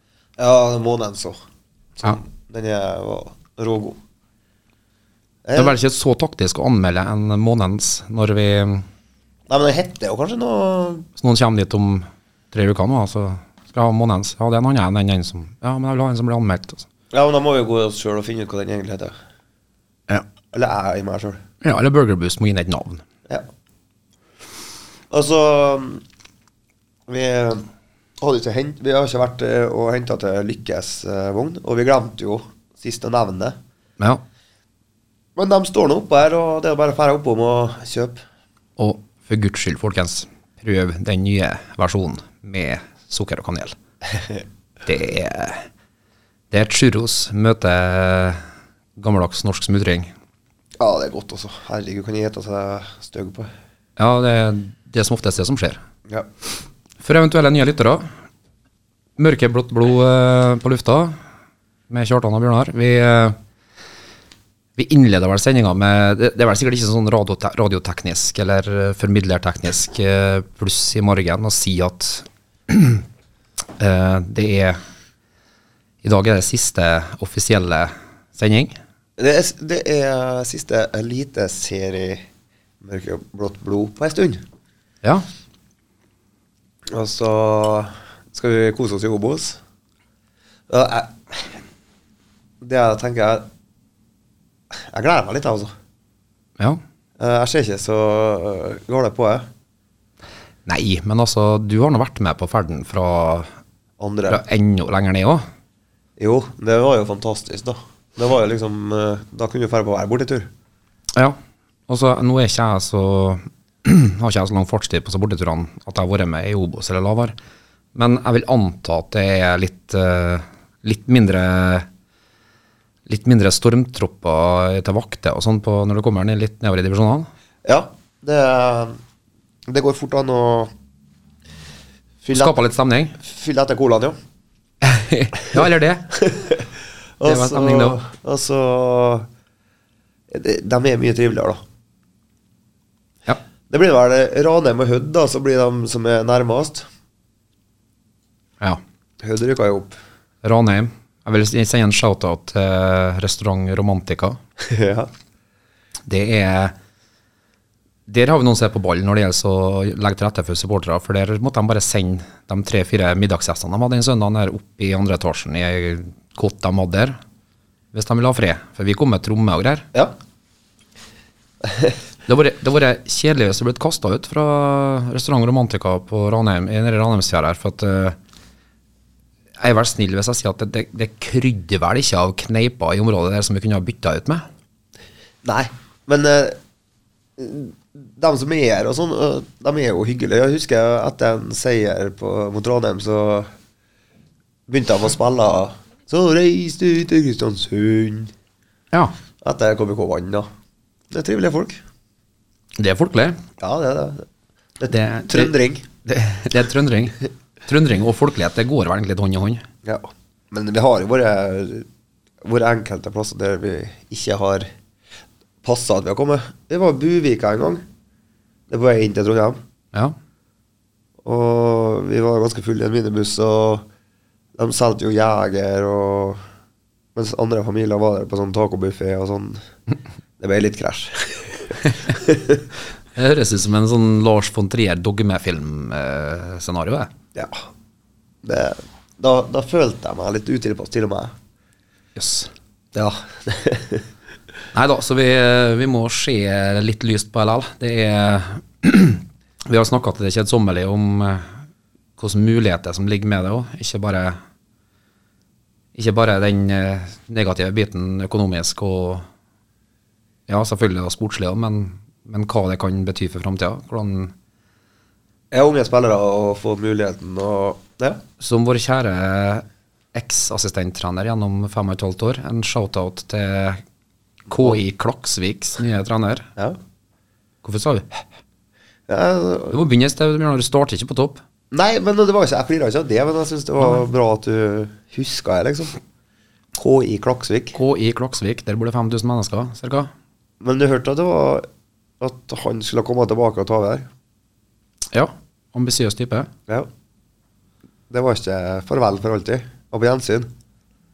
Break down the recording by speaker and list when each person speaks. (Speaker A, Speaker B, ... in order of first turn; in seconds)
Speaker A: 0.4-1.4, 2.0-4.0, 5.4-5.8, 9.5-11.1, 17.1-19.1, 20.5-21.4, 25.1-26.0, 27.1-27.6, 28.2-33.6, 35.4-38.2, 50.8-53.5, 79.2-82.2, 82.8-84.4, 86.9-89.6, 90.7-91.5, 92.6-93.5, 94.7-95.7, 97.2-99.5, 104.0-104.4, 106.2-110.5, 127.6-129.0, 129.7-130.7, 132.2-132.6, 133.2-134.2, 136.1-136.6, 137.2-139.3, 140.3-141.6, 143.7-146.8, 149.2-149.9, 154.6-155.1, 171.7-171.9, 185.4-186.6, 187.4-193.5, 194.7-198.3, 199.4-200.5, 201.1-201.8, 203.6-204.2, 204.8-205.8, 209.8-211.9, 212.4-214.7, 215.6-217.8, 218.7-219.6, 221.2-223.8, 224.6-226.4, 227.1-229.6, 230.4-232.6, 237.3-237.6, 238.4-241.3, 242.9-244.1, 265.5-268.2, 279.1-279.8, 281.7-286.0, 286.7-287.8, 290.6-291.7, 292.2-294.1, 298.1-300.5
Speaker B: 5.5-8.8, 11.2-16.9, 21.6-23.0, 38.8-43.7, 44.8-45.6, 46.5-48.4, 49.0-50.1, 54.0-55.8, 57.0-58.0, 59.2-61.1, 61.9-63.4, 64.8-73.0, 73.8-74.8, 76.0-78.7, 100.7-103.5, 104.3-105.4, 111.9-117.3, 117.9-121.9, 123.1-127.3, 132.3-133.2, 134.8-136.2, 137.2-138.0, 150.4-154.4, 156.1-156.7, 158.1-167.2, 167.9-169.9, 172.3-178.2, 179.6-184.4, 202.8-203.4, 204.9-205.5, 206.1-209.6, 233.2-237.1, 242.2-242.5, 244.7-251.5, 252.2-254.4, 255.9-259.2, 260.5-264.3, 268.4-273.8, 274.5-276.5, 277.6-278.2, 279.7-281.4, 287.7-290.1, 295.1-296.5